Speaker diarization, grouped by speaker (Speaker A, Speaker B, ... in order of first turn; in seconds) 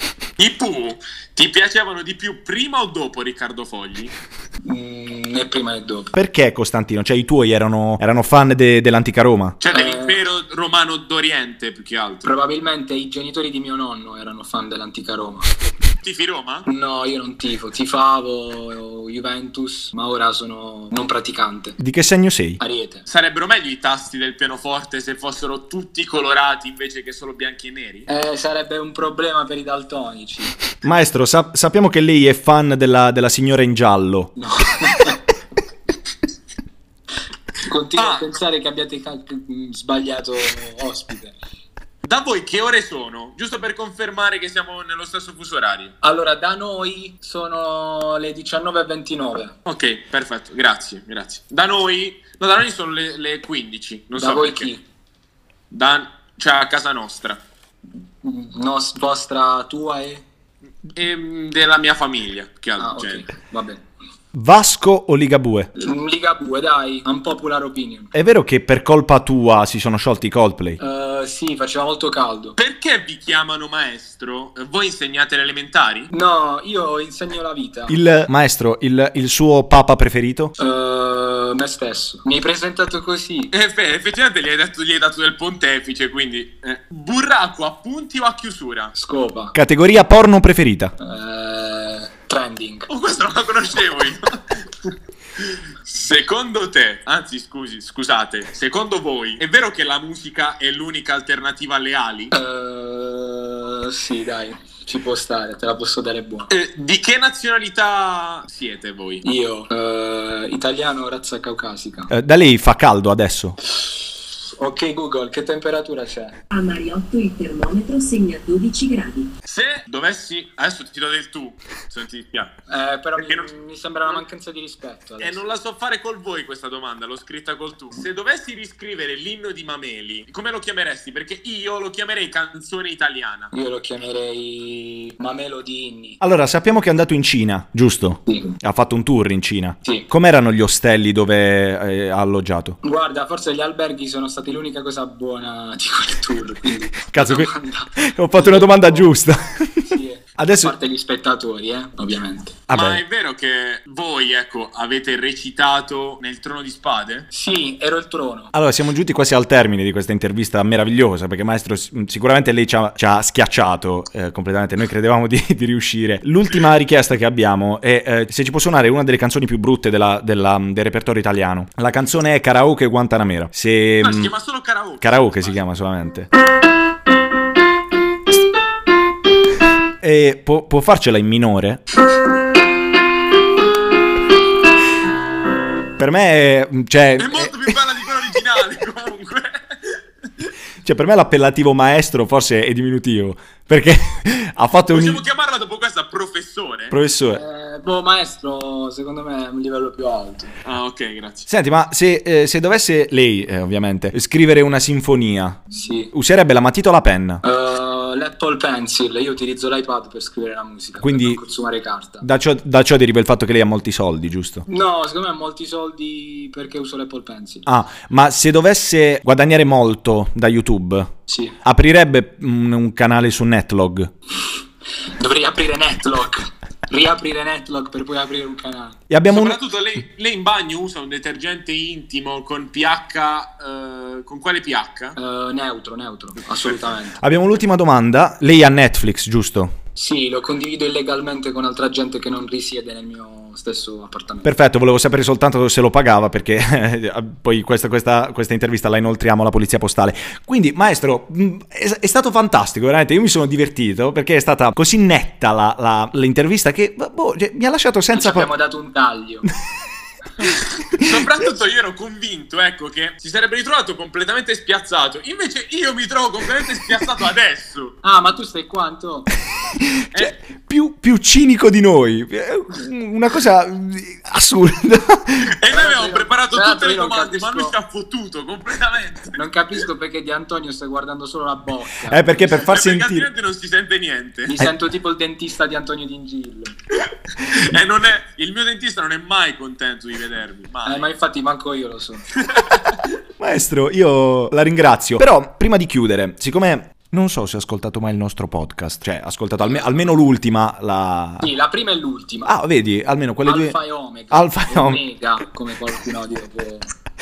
Speaker A: 0.4-4.1, 9.6-12.3, 16.0-16.6, 23.1-28.1, 38.0-38.2, 42.0-45.9, 49.7-54.7, 55.7-57.4, 61.0-63.2, 72.6-76.1, 83.5-88.9, 92.9-102.3, 106.5-109.2, 119.5-122.5, 123.2-123.5, 125.2-133.5, 152.7-157.3, 174.0-175.6, 187.2-190.0, 194.9-196.9, 200.7-201.4, 229.3-235.2, 260.8-267.9, 275.4-279.4, 282.5-284.6, 287.3-291.1, 292.4-293.0
Speaker B: 4.6-6.1, 9.7-10.2, 12.2-15.5, 16.7-21.8, 22.6-23.0, 28.1-30.6, 34.4-35.2, 37.6-41.4, 46.0-49.6, 54.1-54.8, 58.2-60.2, 62.8-63.8, 65.8-68.1, 70.8-72.5, 76.1-78.0, 80.6-83.5, 89.0-89.5, 91.0-92.9, 102.3-106.5, 109.2-112.1, 114.6-116.4, 122.7-125.5, 133.5-136.2, 138.3-138.6, 142.8-149.2, 149.8-152.6, 157.3-158.5, 197.3-200.5, 205.7-206.1, 207.4-212.2, 214.7-217.7, 221.3-221.6, 225.1-229.0, 235.2-237.2, 239.9-244.6, 258.1-259.5, 268.0-269.3, 275.7-277.7, 279.4-282.7, 284.5-286.7, 290.9-292.2, 301.4-302.6, 303.4-306.9
Speaker C: 6.1-9.6, 21.8-22.6, 30.8-34.3, 64.3-65.7, 68.1-70.8, 77.9-80.5, 89.5-90.9, 112.1-113.6, 136.2-142.8, 146.9-150.8, 152.7-153.0, 158.5-174.3, 175.0-176.3, 180.0-181.8, 186.0-187.8, 190.8-195.2, 196.9-197.4, 201.5-207.4, 211.0-211.4, 212.2-214.7, 217.7-221.1, 221.6-224.1, 229.1-229.6, 237.2-239.7, 244.4-258.5, 269.7-275.5, 282.1-283.3, 293.4-301.5, 302.4-303.8, 304.3-305.0
Speaker D: 116.5-119.3